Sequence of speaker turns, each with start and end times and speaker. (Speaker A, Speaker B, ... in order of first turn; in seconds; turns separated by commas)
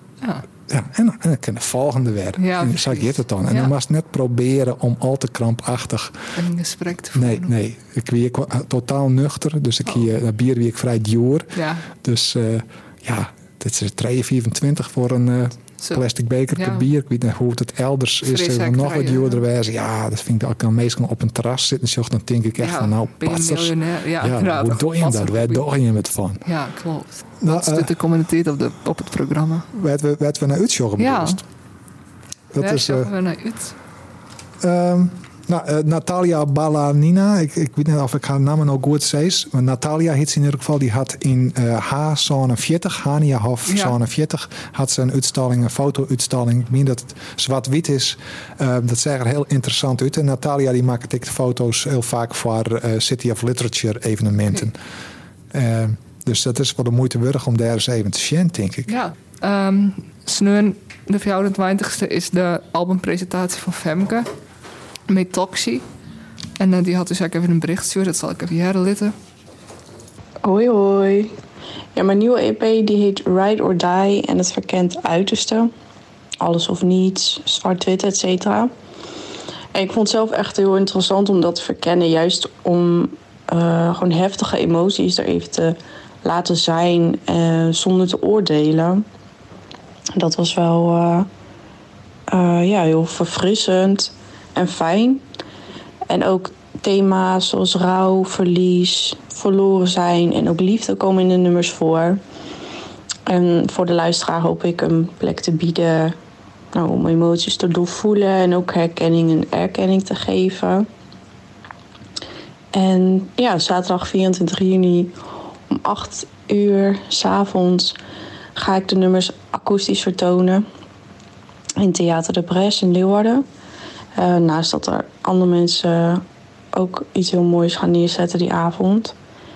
Speaker A: 0.7-6.2, Speaker B: 2.4-3.7, Speaker B: 6.4-7.5, Speaker A: 7.2-26.4, Speaker B: 11.6-11.9, Speaker B: 16.6-16.9, Speaker B: 18.2-19.4, Speaker B: 22.6-25.6, Speaker B: 26.4-29.7, Speaker A: 27.4-27.9, Speaker A: 29.7-31.4, Speaker B: 31.0-31.4, Speaker A: 32.5-33.1, Speaker B: 32.6-33.8, Speaker A: 34.6-54.8, Speaker B: 43.7-44.0, Speaker A: 55.5-58.9, Speaker B: 58.9-64.3, Speaker B: 65.1-65.8, Speaker B: 66.6-69.1, Speaker C: 70.4-71.3, Speaker C: 72.0-75.7, Speaker C: 76.4-78.7, Speaker C: 79.7-89.0, Speaker C: 90.2-91.3, Speaker C: 92.3-95.2, Speaker C: 96.1-102.2, Speaker C: 103.3-106.2, Speaker C: 106.7-110.9, Speaker C: 112.7-115.2, Speaker C: 115.7-118.0, Speaker C: 118.6-120.7, Speaker C: 121.8-123.5, Speaker C: 124.2-129.2